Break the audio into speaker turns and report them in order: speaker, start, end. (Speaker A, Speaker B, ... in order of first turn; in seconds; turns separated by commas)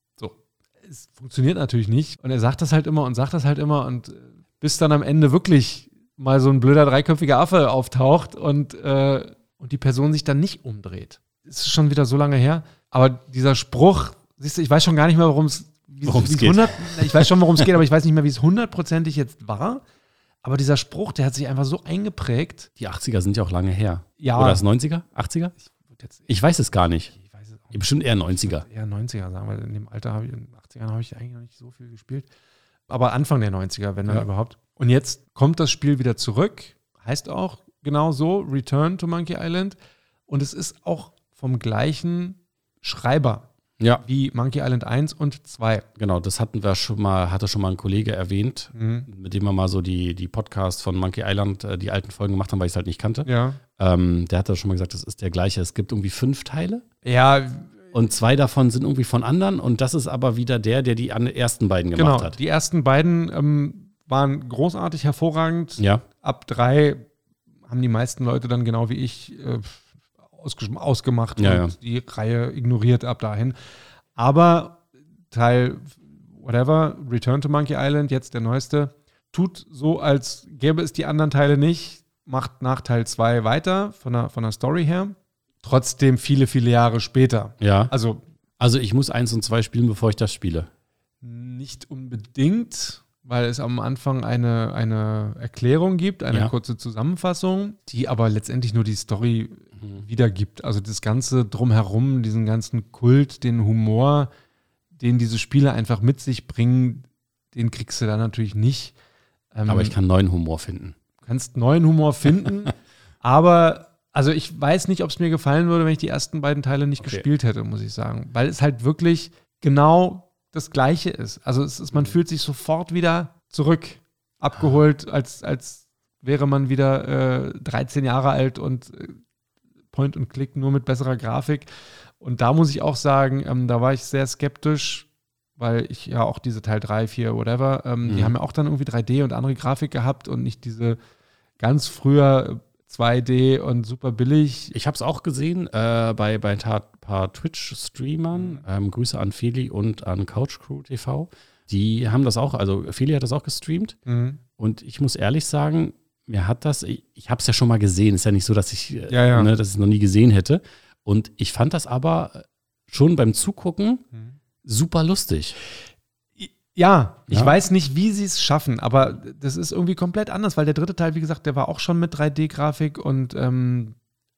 Speaker A: 0.2-19.8, Speaker B: 16.1-17.7, Speaker A: 20.4-22.7, Speaker B: 22.8-25.6, Speaker A: 24.2-24.6, Speaker A: 25.7-26.3, Speaker B: 26.3-27.1, Speaker A: 27.1-27.8, Speaker B: 27.7-28.7, Speaker A: 28.4-32.3, Speaker A: 32.9-39.8, Speaker A: 40.3-43.5, Speaker A: 44.0-45.9, Speaker B: 46.0-56.8, Speaker A: 48.7-49.1, Speaker A: 53.2-53.6, Speaker A: 57.0-57.9, Speaker B: 57.9-62.4, Speaker A: 62.0-67.1, Speaker B: 65.8-66.0, Speaker A: 67.7-73.6, Speaker B: 71.4-71.8, Speaker A: 74.2-88.2, Speaker B: 87.6-87.9, Speaker B: 88.6-90.7, Speaker A: 91.2-104.3, Speaker B: 99.8-100.0, Speaker A: 105.0-108.9, Speaker A: 109.5-109.9, Speaker B: 109.7-111.0, Speaker A: 111.2-129.2, Speaker B: 117.0-117.2, Speaker A: 129.9-131.7, Speaker A: 132.2-141.0, Speaker B: 138.1-138.3, Speaker A: 141.6-144.8, Speaker B: 144.7-154.0, Speaker A: 148.3-148.6, Speaker A: 154.1-154.4, Speaker B: 154.6-164.0, Speaker A: 159.1-159.5, Speaker B: 164.6-165.6, Speaker A: 166.4-174.0, Speaker B: 167.3-167.5